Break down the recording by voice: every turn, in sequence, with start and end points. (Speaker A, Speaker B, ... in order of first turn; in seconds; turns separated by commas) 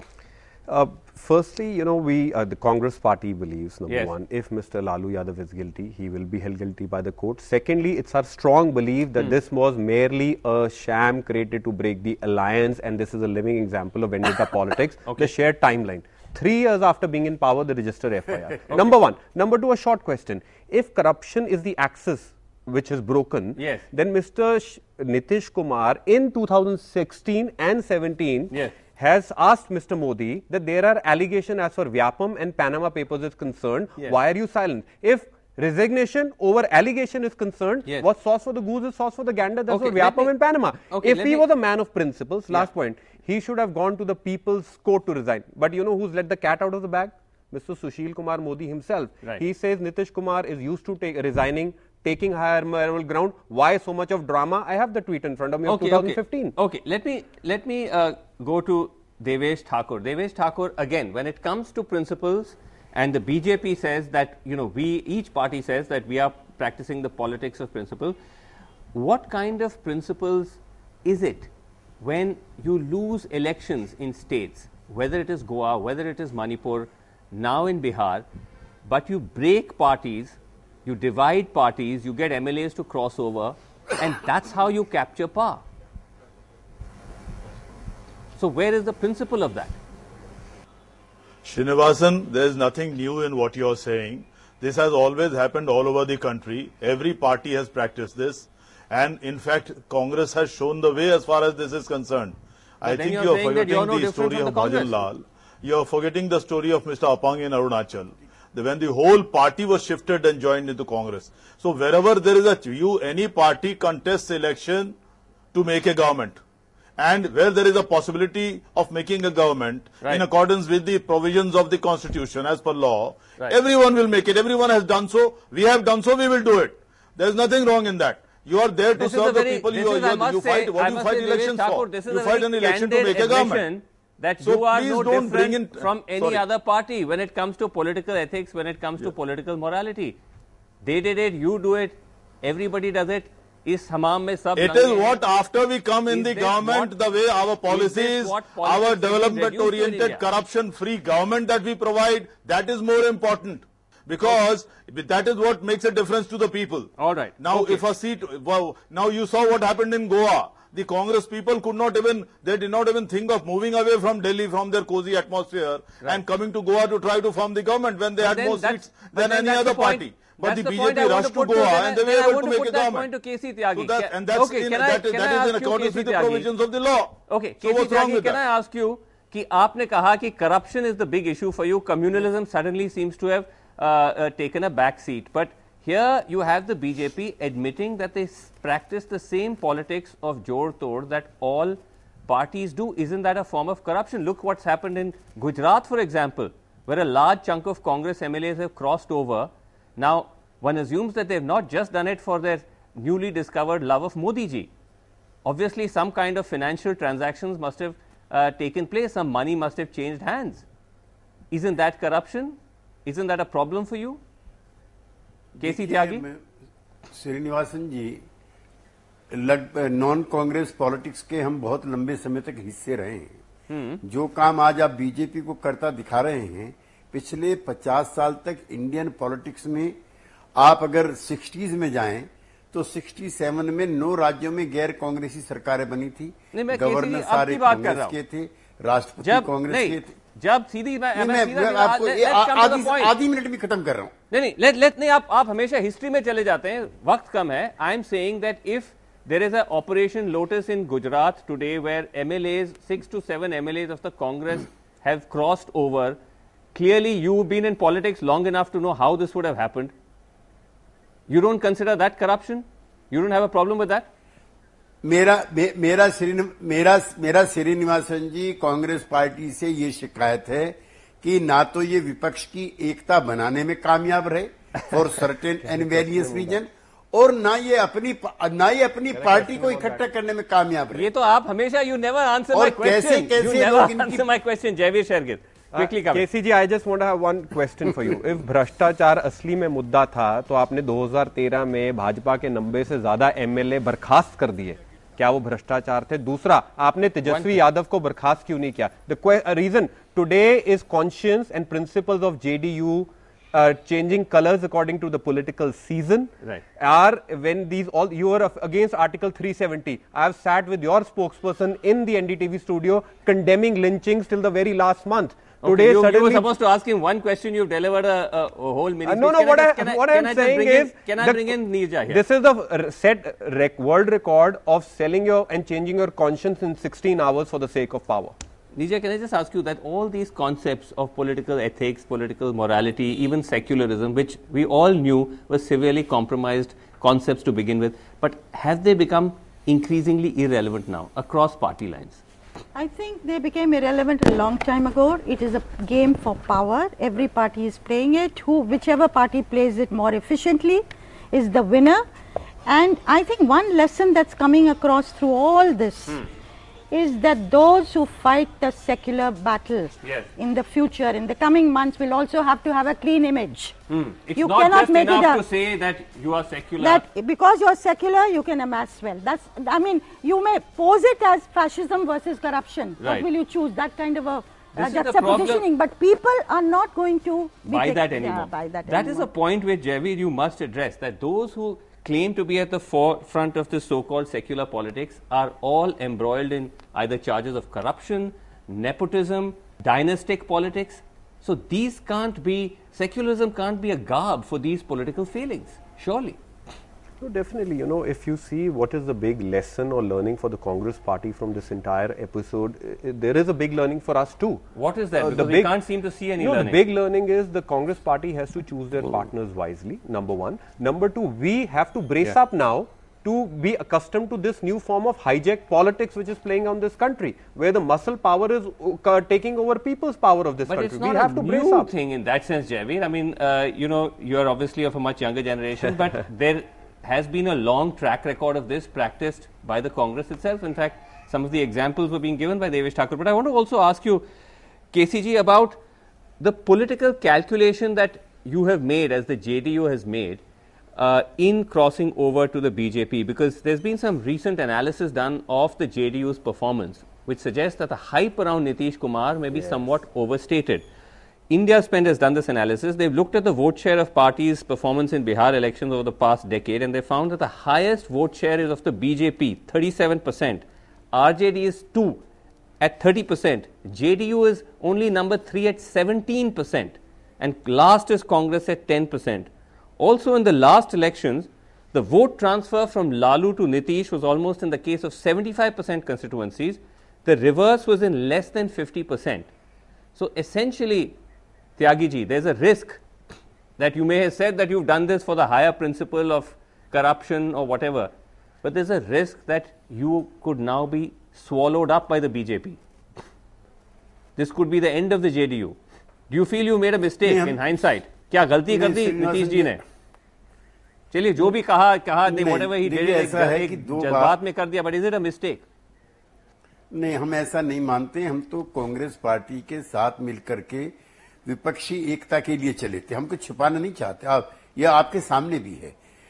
Speaker A: 0.7-56.5, Speaker B: 15.0-15.3, Speaker B: 23.6-23.8, Speaker B: 39.7-40.3, Speaker B: 40.9-41.5, Speaker B: 55.6-68.2, Speaker B: 68.9-78.2, Speaker B: 78.8-85.6, Speaker B: 88.4-89.8, Speaker C: 91.4-115.0, Speaker B: 102.8-105.0, Speaker C: 115.5-116.4, Speaker C: 117.0-133.6, Speaker B: 129.0-140.2, Speaker C: 134.4-136.4, Speaker B: 140.8-145.1, Speaker C: 144.6-173.1, Speaker B: 146.1-146.9, Speaker B: 147.7-150.2, Speaker B: 157.0-157.8, Speaker B: 168.2-176.5, Speaker C: 173.7-178.4, Speaker B: 177.3-204.7, Speaker B: 205.4-210.6, Speaker B: 211.5-214.2, Speaker D: 215.6-216.4, Speaker B: 215.6-216.2, Speaker D: 217.1-218.2, Speaker D: 219.3-223.4, Speaker B: 223.7-224.0, Speaker D: 224.0-229.9, Speaker D: 230.6-240.1, Speaker B: 236.5-238.2, Speaker B: 239.2-243.1, Speaker D: 241.1-244.1, Speaker B: 244.3-256.2, Speaker B: 256.7-259.9, Speaker B: 261.3-264.1, Speaker D: 265.0-281.1, Speaker A: 275.6-276.6, Speaker A: 279.1-280.0, Speaker B: 280.9-286.3, Speaker D: 282.5-284.2, Speaker A: 285.7-316.4, Speaker B: 297.2-297.6, Speaker B: 315.6-322.2, Speaker A: 319.0-328.4, Speaker B: 328.8-342.2, Speaker E: 342.7-352.0, Speaker E: 352.7-356.2, Speaker E: 356.9-363.8, Speaker B: 360.0-360.3, Speaker B: 363.9-367.0, Speaker E: 364.4-365.4, Speaker E: 366.8-379.3, Speaker B: 373.0-373.2, Speaker B: 374.7-375.6, Speaker B: 377.6-396.4, Speaker A: 397.2-404.6, Speaker B: 404.7-406.8, Speaker A: 405.1-405.8, Speaker A: 406.4-421.9, Speaker B: 420.6-434.2, Speaker B: 434.9-435.8, Speaker B: 436.4-440.4, Speaker B: 440.9-450.9, Speaker B: 451.5-462.2, Speaker B: 462.8-479.5, Speaker B: 480.1-481.2, Speaker B: 481.8-483.0, Speaker B: 483.8-488.1, Speaker B: 488.6-492.8, Speaker B: 494.4-495.8, Speaker B: 496.3-499.8, Speaker D: 497.2-497.6, Speaker D: 498.7-499.8, Speaker B: 501.1-505.6, Speaker D: 502.2-504.3, Speaker D: 506.9-510.9, Speaker D: 511.4-515.9